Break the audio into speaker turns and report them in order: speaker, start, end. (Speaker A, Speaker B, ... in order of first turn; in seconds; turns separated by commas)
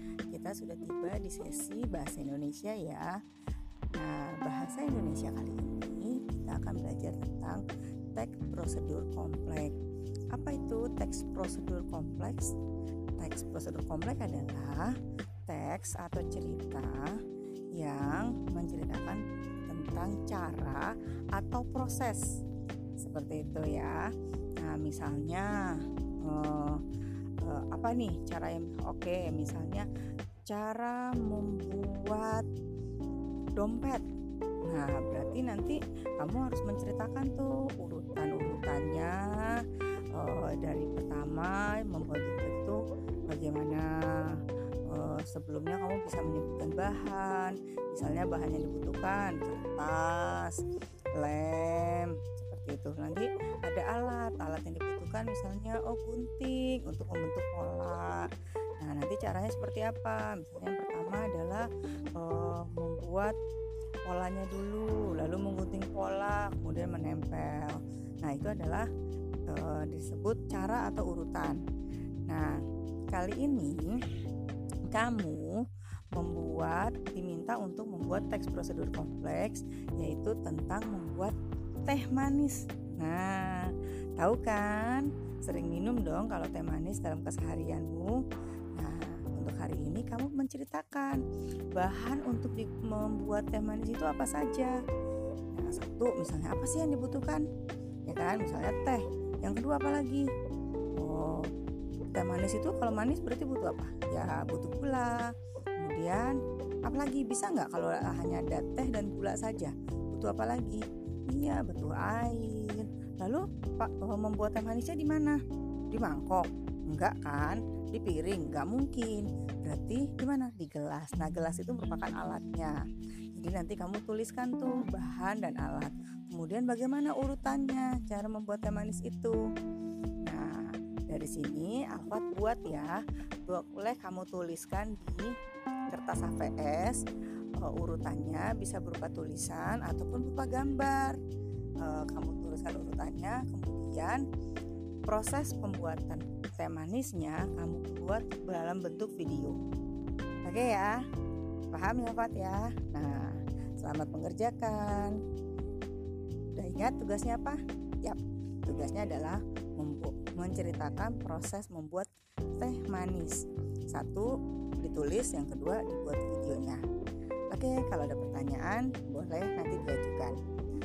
Speaker A: 0.3-3.1, Speaker A: 4.0-7.6, Speaker A: 8.1-9.8, Speaker A: 10.3-12.5, Speaker A: 13.2-14.9, Speaker A: 15.5-17.1, Speaker A: 17.8-22.2, Speaker A: 23.0-24.0, Speaker A: 24.6-25.5, Speaker A: 26.2-26.8, Speaker A: 27.4-29.9, Speaker A: 30.5-32.5, Speaker A: 33.6-34.0, Speaker A: 34.7-42.8, Speaker A: 43.3-50.6, Speaker A: 51.2-58.3, Speaker A: 58.8-61.7, Speaker A: 62.2-63.3, Speaker A: 64.1-68.9, Speaker A: 69.5-71.6, Speaker A: 72.3-72.6, Speaker A: 73.1-74.0, Speaker A: 74.9-75.6, Speaker A: 76.2-81.3, Speaker A: 81.8-88.2, Speaker A: 88.8-91.2, Speaker A: 91.8-94.8, Speaker A: 95.5-97.4, Speaker A: 98.1-100.3, Speaker A: 101.0-101.5, Speaker A: 102.1-105.3, Speaker A: 105.8-115.4, Speaker A: 115.9-122.8, Speaker A: 123.3-129.4, Speaker A: 130.3-132.9, Speaker A: 133.5-135.3, Speaker A: 135.9-137.0, Speaker A: 137.6-141.2, Speaker A: 141.8-144.2, Speaker A: 145.1-149.6, Speaker A: 150.4-151.0, Speaker A: 151.7-155.2, Speaker A: 156.6-163.4, Speaker A: 163.9-164.3, Speaker A: 164.8-166.8, Speaker A: 167.5-170.4